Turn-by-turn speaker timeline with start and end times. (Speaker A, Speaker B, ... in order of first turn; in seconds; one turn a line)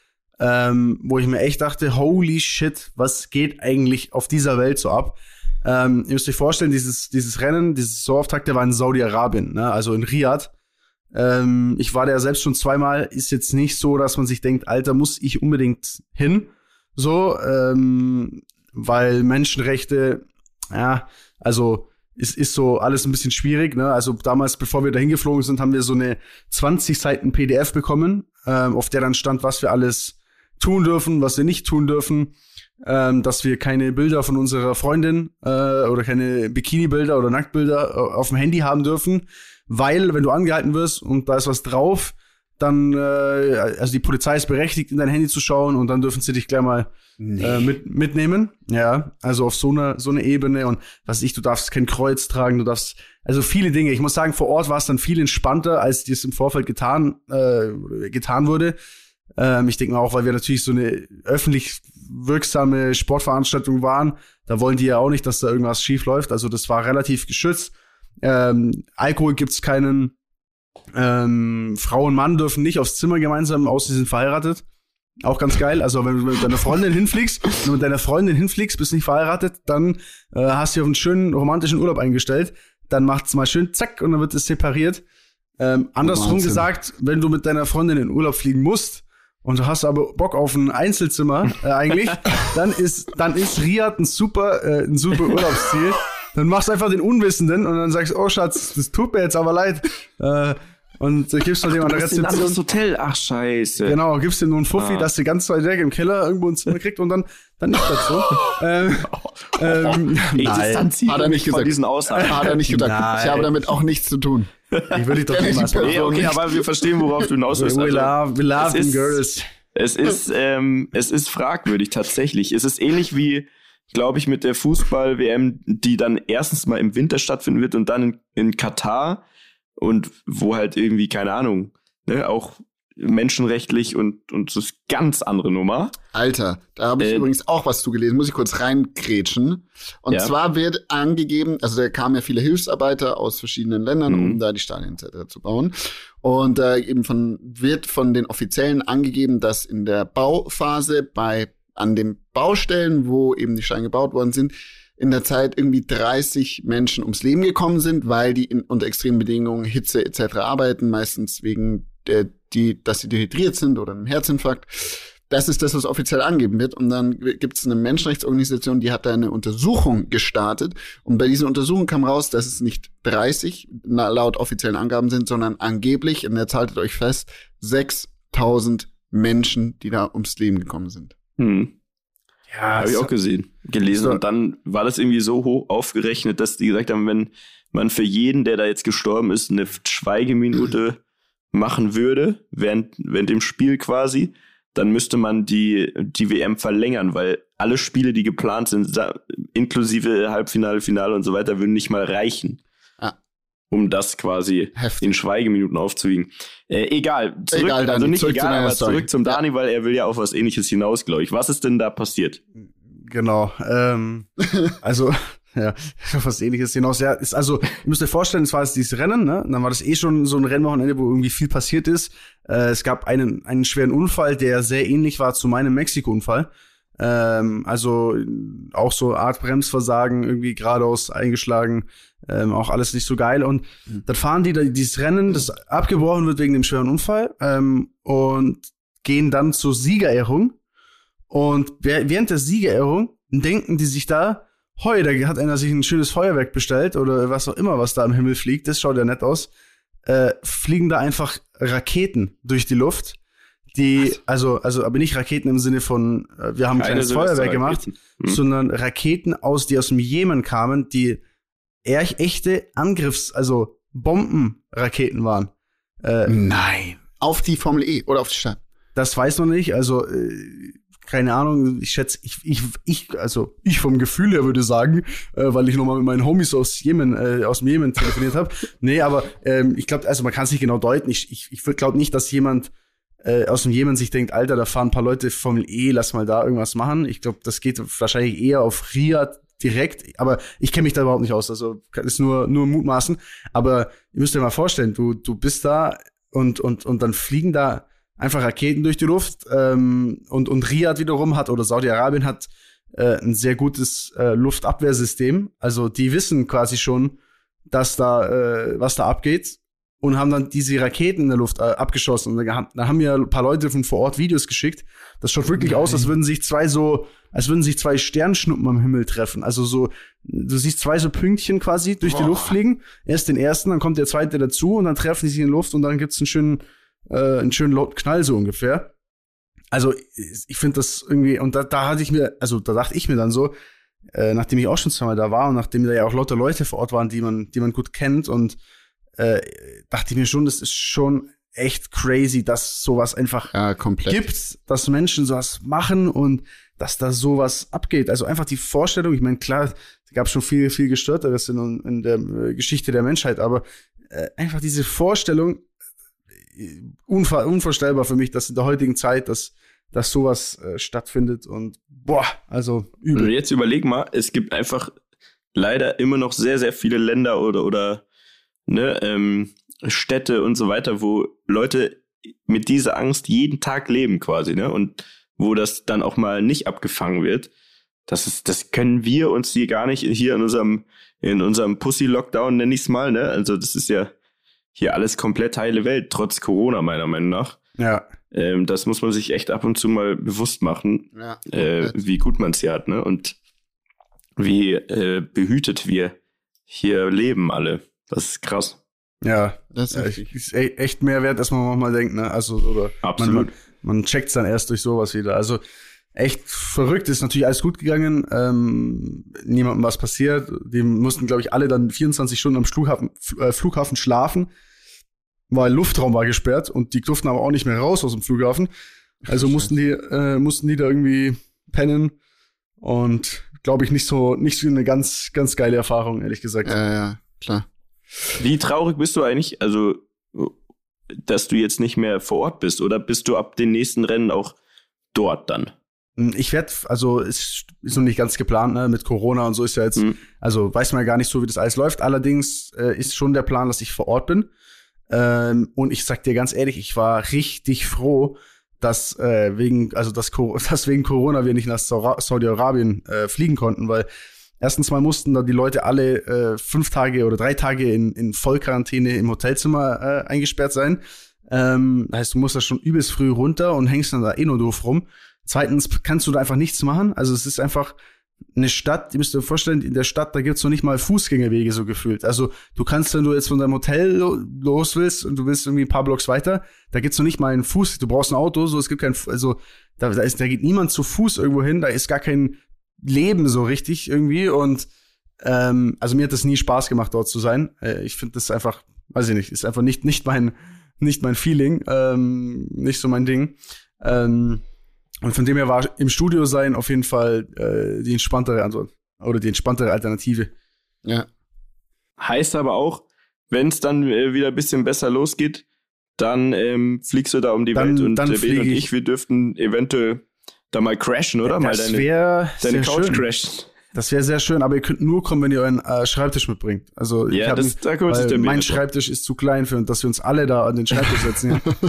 Speaker A: 0.4-10.5
Speaker A: 11.1-58.8
Speaker B: 47.2-47.7
Speaker A: 59.4-70.1
Speaker A: 70.9-74.6
Speaker A: 75.2-85.0
Speaker A: 85.6-102.6
Speaker B: 86.0-86.7
Speaker C: 101.7-104.0
Speaker A: 103.8-110.9
Speaker C: 104.8-105.1
Speaker C: 109.0-112.6
Speaker B: 111.0-114.5
Speaker A: 112.1-113.5
Speaker A: 114.9-116.2
Speaker B: 115.3-116.6
Speaker C: 115.8-119.2
Speaker A: 117.5-119.4
Speaker C: 119.7-129.2
Speaker C: 129.8-135.9
Speaker B: 136.1-181.1
Speaker C: 137.0-137.2
Speaker C: 144.1-144.4
Speaker C: 181.4-181.7
Speaker A: 182.5-183.1
Speaker C: 182.8-191.0
Speaker A: 183.9-184.2
Speaker C: 191.5-202.6
Speaker C: 203.7-212.4
Speaker B: 204.7-205.1
Speaker B: 207.5-209.4
Speaker A: 212.9-214.3
Speaker A: 214.8-240.6
Speaker A: 241.3-249.5
Speaker A: 250.0-253.2
Speaker A: 253.7-261.2
Speaker C: 256.8-258.4
Speaker A: 261.8-265.5
Speaker A: 266.0-266.4
Speaker B: 266.3-268.6
Speaker A: 268.9-282.7
Speaker A: 283.2-307.2
Speaker A: 307.7-328.9
Speaker B: 315.6-316.0
Speaker B: 322.1-322.5
Speaker A: 329.7-333.5
Speaker A: 334.1-338.6
Speaker A: 339.2-343.5
Speaker B: 343.5-344.2
Speaker A: 344.1-355.6
Speaker A: 356.5-363.3
Speaker C: 363.1-364.9
Speaker C: 365.5-368.0
Speaker C: 368.7-377.5
Speaker C: 378.1-384.1
Speaker C: 384.8-387.6
Speaker A: 387.8-388.1
Speaker C: 388.3-393.4
Speaker B: 391.1-391.9
Speaker C: 394.4-396.1
Speaker C: 396.7-398.8
Speaker A: 399.2-405.6
Speaker B: 399.7-400.3
Speaker C: 403.0-403.5
Speaker A: 406.1-414.5
Speaker A: 415.5-418.7
Speaker B: 419.3-419.7
Speaker A: 419.3-422.1
Speaker A: 422.8-426.7
Speaker B: 426.6-427.7
Speaker C: 428.4-430.5
Speaker C: 431.2-434.5
Speaker C: 435.1-435.7
Speaker A: 436.2-444.5
Speaker A: 445.1-454.1
Speaker A: 454.6-467.9
Speaker A: 468.5-484.9
Speaker A: 485.4-494.6
Speaker A: 495.2-500.5
Speaker C: 502.2-505.6
Speaker C: 506.2-512.0
Speaker A: 507.7-508.8
Speaker A: 511.4-513.2
Speaker C: 512.6-513.7
Speaker A: 513.9-521.6
Speaker C: 517.3-518.8